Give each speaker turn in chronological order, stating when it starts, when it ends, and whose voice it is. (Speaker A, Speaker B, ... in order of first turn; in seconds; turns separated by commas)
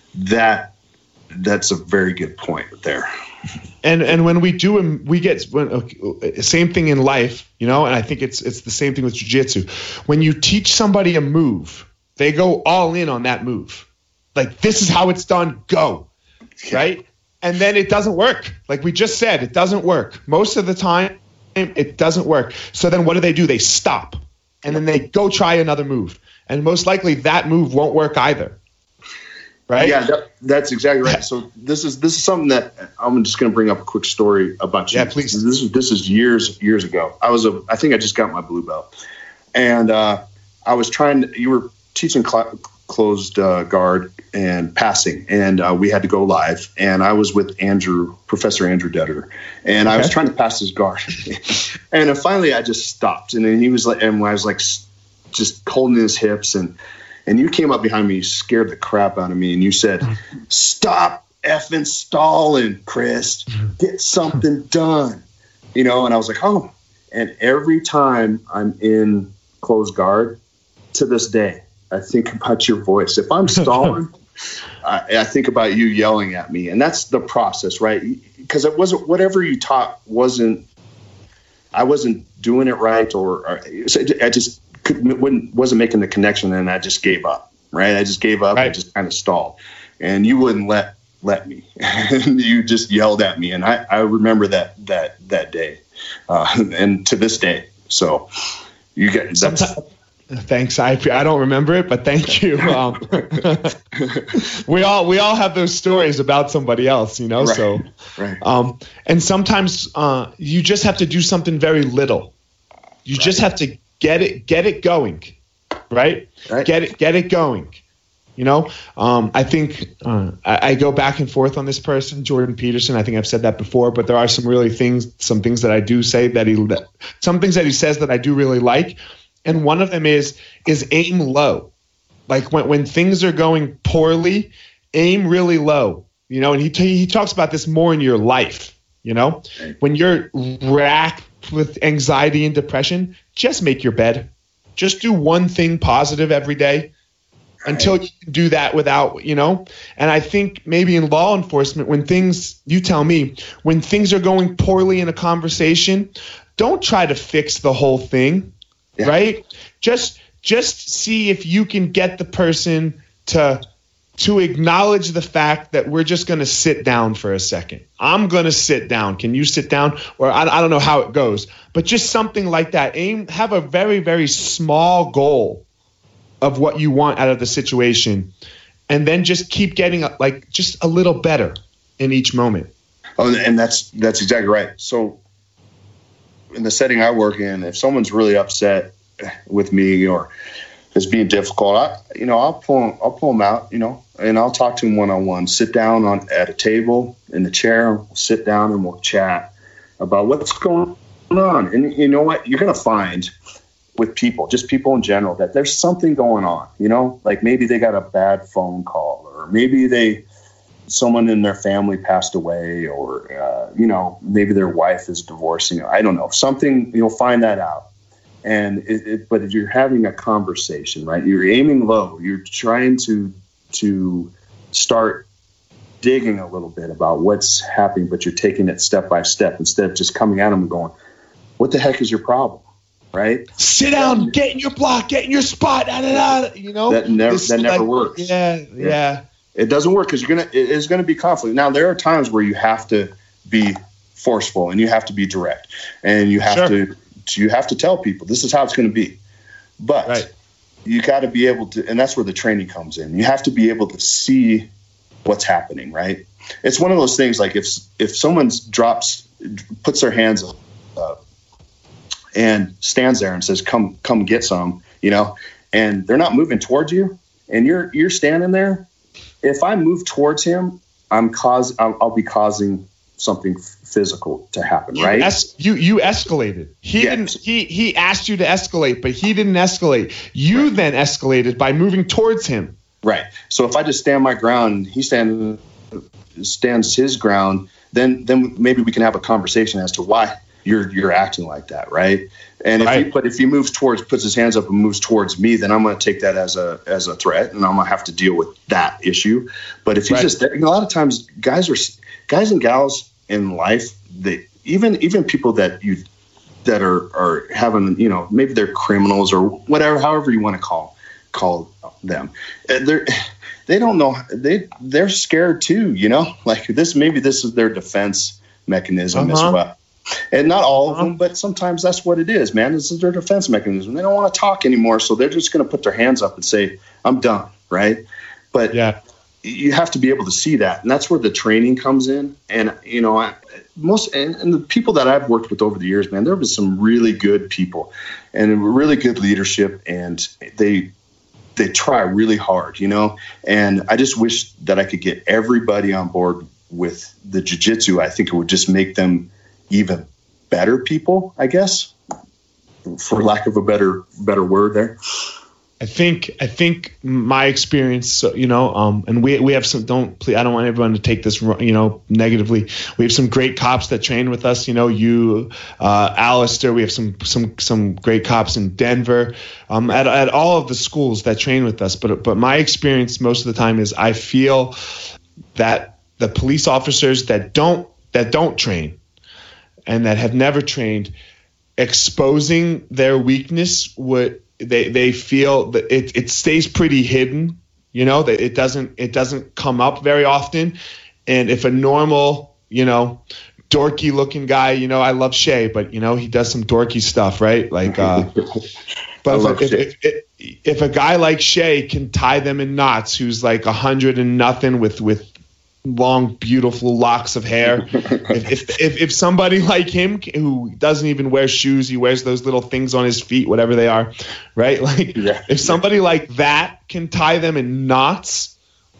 Speaker A: 0.1-0.7, Speaker A: 1.3-3.0, Speaker B: 3.8-16.1, Speaker B: 16.7-28.6, Speaker B: 29.7-30.0, Speaker A: 29.8-38.9, Speaker B: 34.9-35.4, Speaker A: 39.5-56.7, Speaker A: 57.3-65.2, Speaker A: 65.7-70.3, Speaker A: 70.9-74.1, Speaker A: 74.8-80.6, Speaker A: 81.7-98.2, Speaker A: 99.0-99.7, Speaker B: 99.4-99.8, Speaker B: 100.3-103.7, Speaker A: 104.0-104.3, Speaker B: 104.3-107.8, Speaker A: 107.4-108.4, Speaker B: 108.4-112.3, Speaker B: 113.0-115.3, Speaker A: 113.2-113.4, Speaker B: 115.9-117.8, Speaker B: 118.4-131.7, Speaker B: 132.3-146.9, Speaker B: 147.7-163.6, Speaker A: 147.7-147.9, Speaker B: 164.2-175.6, Speaker B: 176.4-178.3, Speaker B: 178.9-182.7, Speaker A: 183.2-185.2, Speaker A: 186.5-188.9, Speaker A: 189.5-190.3, Speaker A: 190.9-203.3, Speaker A: 204.0-210.2, Speaker A: 210.9-217.9, Speaker A: 218.4-225.2, Speaker A: 226.0-230.9, Speaker A: 231.6-233.4, Speaker B: 233.6-239.2, Speaker A: 234.0-234.3, Speaker A: 236.9-238.9, Speaker A: 239.5-249.2, Speaker B: 246.4-246.7, Speaker A: 249.8-250.2, Speaker A: 250.8-254.7, Speaker A: 255.2-259.3, Speaker A: 259.8-261.2, Speaker A: 262.4-268.8, Speaker A: 269.4-275.3, Speaker B: 274.9-282.7, Speaker A: 277.0-277.3, Speaker A: 283.0-306.0, Speaker B: 292.8-293.0, Speaker A: 306.6-313.1, Speaker A: 313.7-319.7, Speaker B: 319.1-319.6, Speaker A: 320.3-328.0, Speaker A: 329.4-340.9, Speaker A: 341.6-351.9, Speaker A: 352.9-354.9, Speaker B: 355.8-374.7, Speaker B: 375.5-379.0, Speaker B: 379.9-381.1, Speaker B: 381.8-390.8, Speaker B: 391.3-398.3, Speaker A: 397.9-398.4, Speaker B: 399.2-405.3, Speaker A: 399.2-399.8, Speaker B: 405.8-418.5, Speaker A: 407.9-408.4, Speaker A: 415.1-415.8